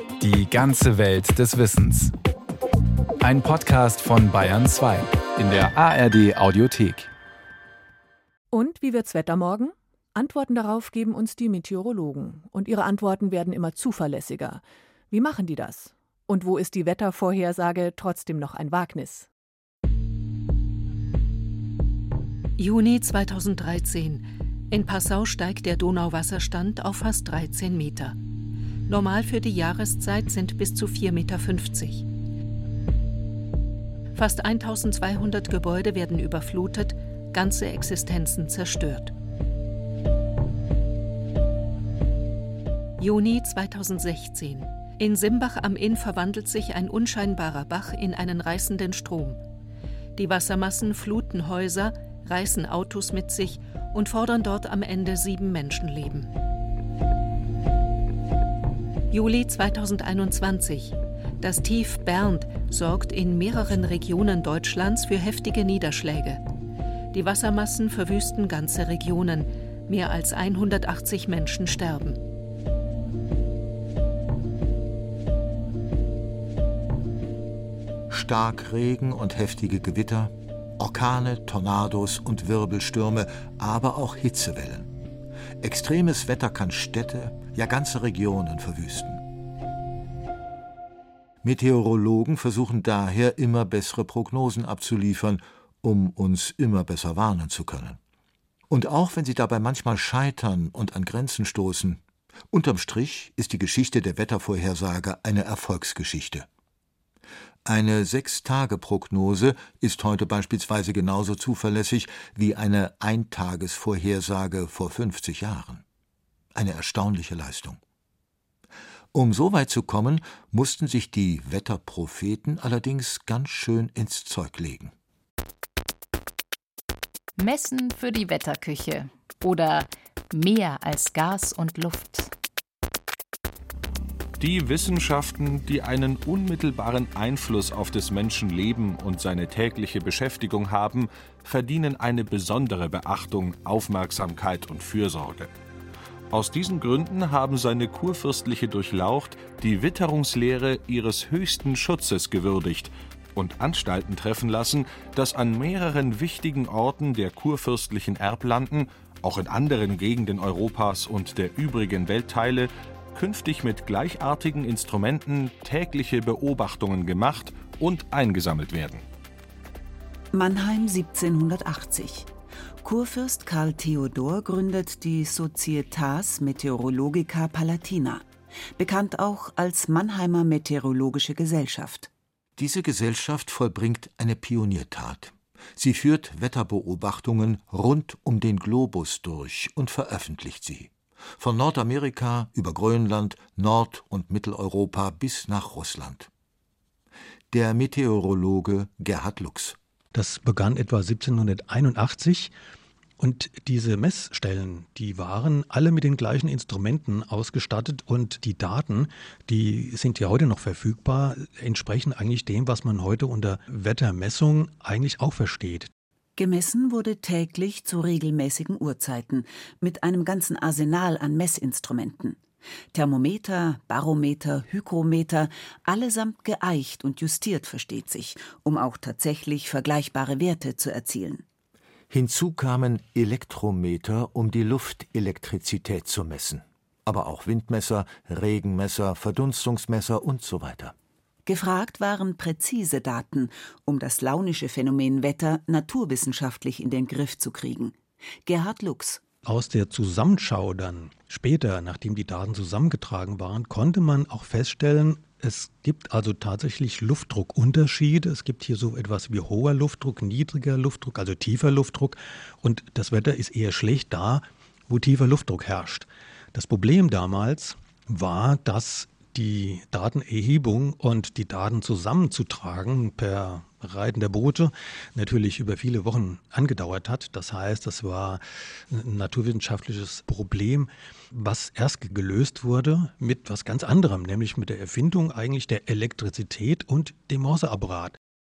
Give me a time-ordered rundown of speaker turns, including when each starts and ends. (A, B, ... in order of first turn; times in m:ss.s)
0:00.2-0:02.1 A
0:03.2-0:07.1 A
0:08.5-0:19.3 B
0:22.6-0:28.2 C
0:28.9-0:32.1 C
0:34.1-0:39.1 C
0:43.0-0:49.4 C
0:50.2-0:56.3 C
0:59.1-1:06.4 C
1:07.1-1:12.2 C
1:18.1-1:24.9 D
1:25.6-1:29.2 D
1:31.4-1:38.0 D
1:38.7-1:46.5 D
1:47.6-1:55.8 D
1:56.6-1:57.8 D
1:59.1-2:04.9 D
2:07.4-2:12.3 E
2:14.4-2:25.5 F
2:26.3-2:49.0 F
2:50.3-2:52.3 G
2:52.8-2:58.3 G
2:58.8-3:02.1 G
3:02.6-3:16.3 D
3:17.5-3:19.8 D
3:20.1-3:22.5 H
3:23.2-3:35.9 H
3:36.4-3:42.4 G
3:42.9-3:51.4 G
3:52.1-4:00.9 D
4:01.5-4:09.2 G
4:09.4-4:48.2 H